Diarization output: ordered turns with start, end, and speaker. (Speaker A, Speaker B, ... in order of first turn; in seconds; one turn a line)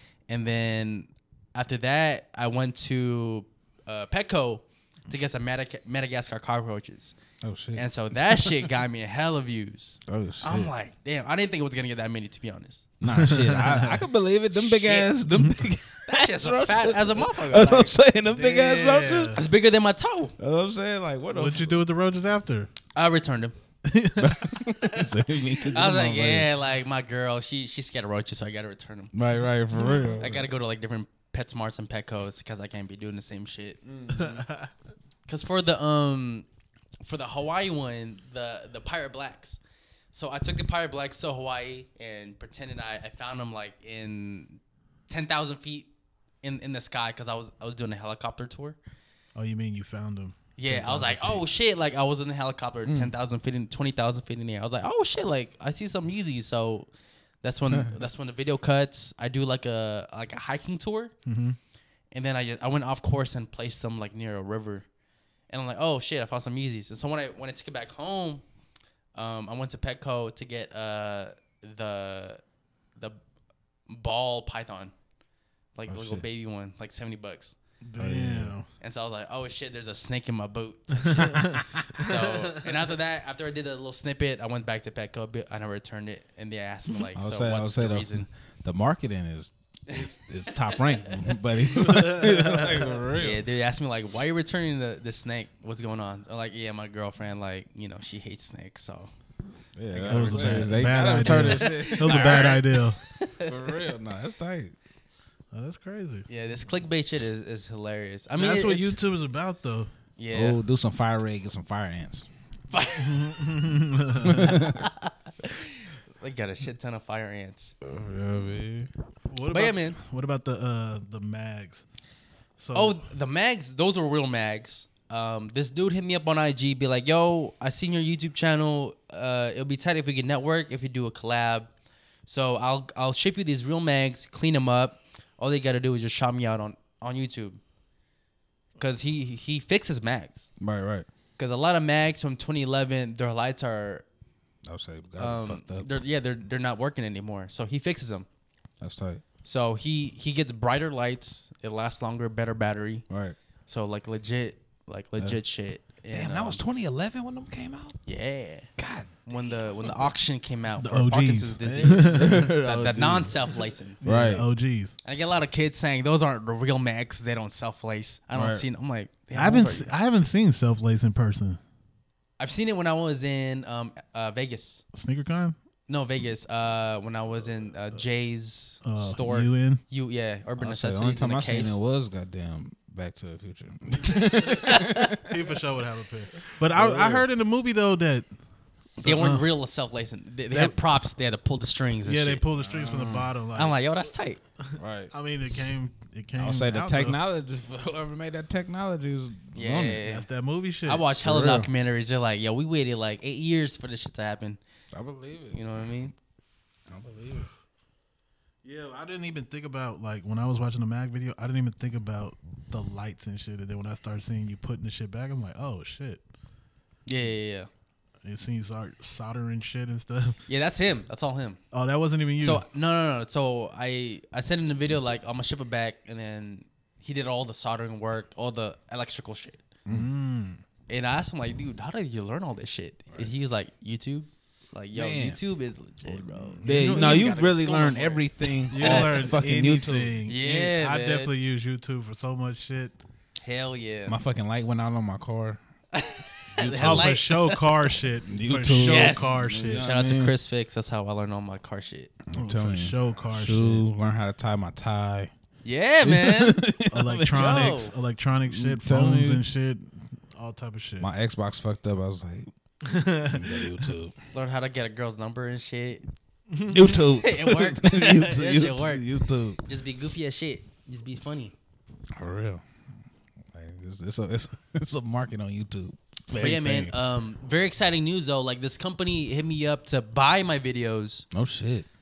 Speaker A: 0.3-7.1
Speaker B: 7.4-8.7
Speaker A: 7.8-12.8
Speaker B: 10.1-10.7
Speaker B: 13.0-19.4
Speaker C: 13.2-14.0
Speaker A: 14.6-15.1
Speaker A: 16.1-18.0
Speaker C: 18.3-19.5
Speaker A: 19.4-20.4
Speaker B: 20.4-21.8
Speaker C: 21.3-22.7
Speaker A: 22.9-23.6
Speaker C: 23.9-24.6
Speaker B: 24.2-26.5
Speaker A: 25.7-29.1
Speaker B: 29.1-30.5
Speaker C: 29.7-30.2
Speaker A: 30.2-33.8
Speaker B: 33.9-34.5
Speaker C: 34.1-34.7
Speaker A: 35.3-36.5
Speaker A: 37.0-39.6
Speaker A: 40.1-45.9
Speaker A: 46.4-48.8
Speaker C: 49.4-51.5
Speaker A: 50.6-56.9
Speaker B: 52.9-53.1
Speaker A: 57.4-61.1
Speaker C: 61.3-61.6
Speaker A: 62.1-64.8
Speaker A: 65.5-68.4
Speaker A: 69.2-72.4
Speaker A: 73.9-74.9
Speaker A: 75.8-77.6
Speaker B: 75.9-76.2
Speaker C: 77.8-78.7
Speaker B: 78.0-78.6
Speaker A: 78.8-88.3
Speaker C: 81.1-82.2
Speaker B: 87.2-93.4
Speaker C: 91.8-92.9
Speaker A: 93.1-99.1
Speaker B: 99.8-102.6
Speaker A: 99.9-103.8
Speaker C: 100.1-103.0
Speaker B: 103.4-104.8
Speaker C: 105.5-106.3
Speaker A: 106.3-109.0
Speaker C: 108.3-109.9
Speaker A: 110.2-110.6
Speaker B: 110.3-112.3
Speaker A: 112.7-113.7
Speaker C: 113.0-114.6
Speaker B: 114.2-114.9
Speaker A: 114.4-117.7
Speaker B: 117.8-118.9
Speaker C: 119.3-121.8
Speaker A: 119.5-120.0
Speaker C: 122.6-123.0
Speaker A: 122.7-131.7
Speaker A: 132.3-137.6
Speaker A: 138.8-140.5
Speaker B: 140.6-141.1
Speaker A: 141.4-144.1
Speaker B: 144.7-146.0
Speaker A: 145.2-148.3
Speaker B: 148.8-149.2
Speaker A: 149.4-153.1
Speaker B: 153.1-153.4
Speaker A: 153.7-156.6
Speaker B: 156.1-158.0
Speaker A: 158.1-158.7
Speaker B: 158.8-160.1
Speaker A: 159.3-164.0
Speaker C: 160.8-162.5
Speaker B: 161.8-163.4
Speaker C: 164.0-164.9
Speaker B: 164.0-164.5
Speaker A: 165.0-170.0
Speaker B: 168.3-168.7
Speaker C: 169.3-171.6
Speaker A: 172.4-174.8
Speaker C: 174.9-175.6
Speaker A: 175.9-181.8
Speaker C: 178.8-179.8
Speaker B: 180.6-185.4
Speaker A: 184.5-185.2
Speaker C: 185.2-188.3
Speaker B: 186.7-187.3
Speaker C: 189.0-189.5
Speaker A: 189.0-192.4
Speaker C: 190.5-190.8
Speaker C: 192.1-193.8
Speaker B: 192.6-193.3
Speaker A: 193.6-194.4
Speaker C: 194.7-197.2
Speaker B: 194.8-195.1
Speaker B: 196.4-200.0
Speaker A: 199.6-200.3
Speaker C: 200.1-201.1
Speaker A: 200.9-204.6
Speaker B: 201.2-201.7
Speaker B: 204.9-205.6
Speaker A: 205.5-206.1
Speaker B: 206.9-207.5
Speaker C: 208.6-216.2
Speaker A: 217.1-217.7
Speaker C: 218.2-220.4
Speaker A: 220.5-221.6
Speaker C: 221.7-222.7
Speaker A: 222.4-229.6
Speaker C: 229.9-230.6
Speaker A: 230.9-239.3
Speaker B: 234.9-235.4
Speaker B: 236.1-240.2
Speaker C: 236.6-237.4
Speaker C: 238.7-242.9
Speaker A: 240.3-241.3
Speaker A: 243.4-244.2
Speaker B: 244.1-245.6
Speaker A: 245.9-247.9
Speaker B: 246.5-247.2
Speaker C: 246.8-249.9
Speaker B: 248.3-250.3
Speaker A: 248.8-252.1
Speaker B: 252.3-255.3
Speaker C: 252.3-253.9
Speaker A: 255.6-256.6
Speaker B: 256.0-257.7
Speaker C: 256.9-261.1
Speaker A: 257.3-257.9
Speaker B: 258.5-259.4
Speaker B: 261.0-262.5
Speaker C: 262.9-263.8
Speaker B: 263.2-264.2
Speaker A: 264.3-266.1
Speaker C: 266.5-267.0
Speaker B: 266.7-269.6
Speaker A: 267.0-269.1
Speaker A: 269.6-271.5
Speaker B: 272.1-272.6
Speaker B: 273.5-277.0
Speaker A: 276.4-281.3
Speaker B: 281.3-281.9